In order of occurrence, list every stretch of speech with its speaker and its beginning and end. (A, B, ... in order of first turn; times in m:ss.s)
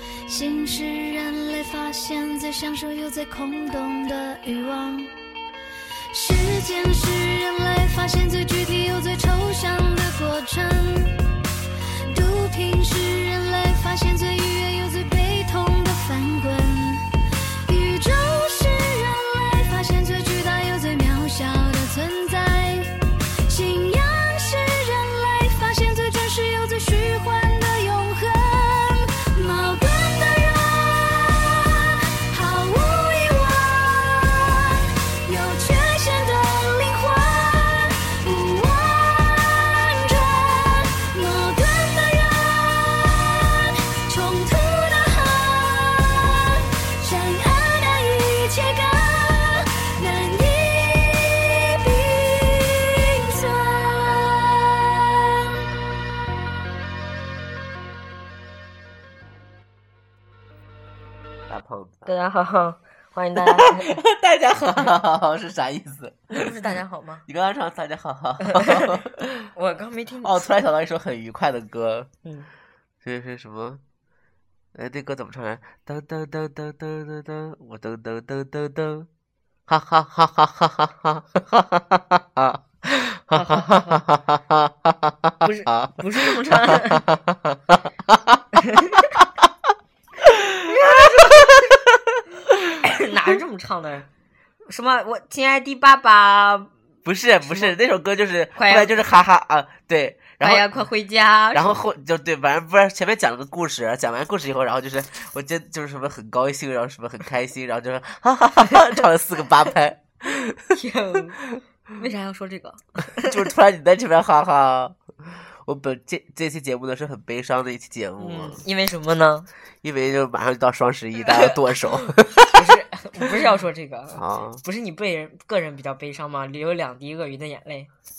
0:00.3-0:05.1 A
0:06.1-0:11.2 A
0:12.1-0:17.0 A
0:17.6-0:23.0 A
0:23.5-0:55.1 A
1:01.5-1:02.1 B
1:02.1-1:04.0 C
1:03.4-1:06.5 B
1:06.3-1:07.2 C
1:07.3-1:09.5 B
1:08.4-1:09.0 C
1:09.5-1:10.4 C
1:10.2-1:12.1 B
1:13.0-1:13.8 B
1:14.7-1:19.1 B
1:19.7-1:28.4 B
1:23.3-1:24.0 C
1:25.4-1:27.1 C
1:28.6-1:29.0 C
1:30.3-1:31.3 B
1:30.6-1:31.7 C
1:32.8-1:34.0 C
1:34.7-1:36.7 C
1:37.0-1:40.7 B
1:37.4-1:37.7 C
1:38.6-1:39.0 C
1:40.4-1:41.8 C
1:41.5-1:50.8 B
1:50.7-1:51.4 C
1:52.0-1:53.4 C
1:53.2-1:55.0 B
1:55.6-1:58.6 B
1:58.2-1:59.5 C
1:59.8-2:02.6 B
2:01.2-2:01.5 C
2:02.5-2:07.9 C
2:04.1-2:04.6 B